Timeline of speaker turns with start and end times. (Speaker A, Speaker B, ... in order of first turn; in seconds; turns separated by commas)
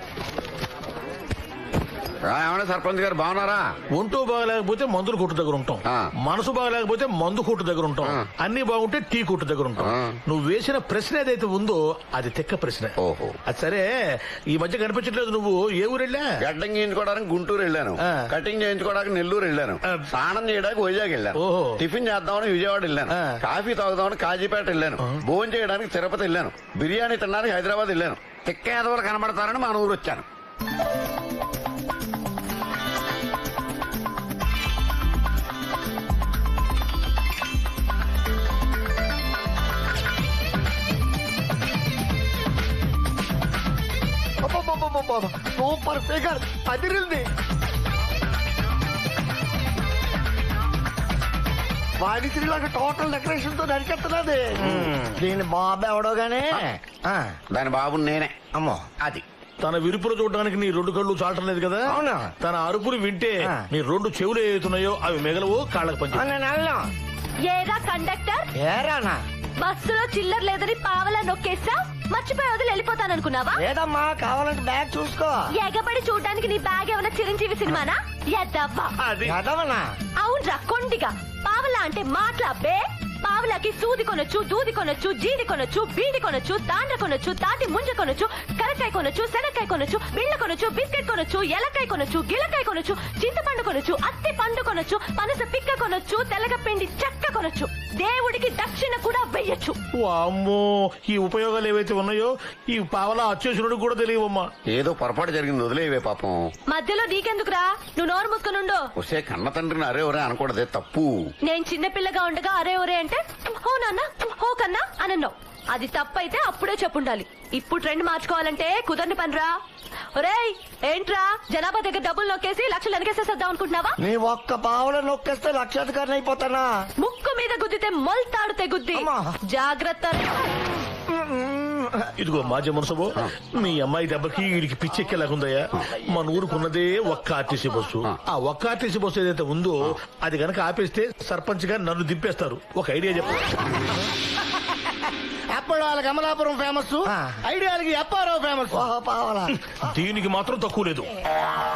Speaker A: 2.3-3.6, Speaker B: 3.9-13.9, Speaker A: 9.8-10.2, Speaker A: 13.0-13.4, Speaker B: 14.5-16.2, Speaker A: 16.4-30.2, Speaker B: 21.4-21.8, Speaker C: 44.4-47.2, Speaker C: 52.0-57.4, Speaker A: 57.5-58.3, Speaker C: 58.5-59.2, Speaker B: 59.6-66.2, Speaker C: 61.9-62.3, Speaker C: 66.1-66.8, Speaker D: 67.5-68.5, Speaker C: 68.6-69.2, Speaker D: 69.6-73.6, Speaker C: 73.6-75.4, Speaker D: 75.5-78.9, Speaker B: 79.0-79.3, Speaker C: 79.2-79.8, Speaker D: 80.2-99.8, Speaker B: 100.0-104.5, Speaker A: 104.7-106.4, Speaker D: 106.7-108.9, Speaker A: 109.0-111.2, Speaker D: 111.5-119.5, Speaker D: 120.2-124.0, Speaker C: 124.0-126.7, Speaker D: 127.0-130.3, Speaker C: 128.9-129.4, Speaker C: 131.3-131.9, Speaker B: 132.2-143.4, Speaker E: 145.5-148.8, Speaker C: 147.1-147.4, Speaker C: 148.7-149.5, Speaker B: 149.9-151.1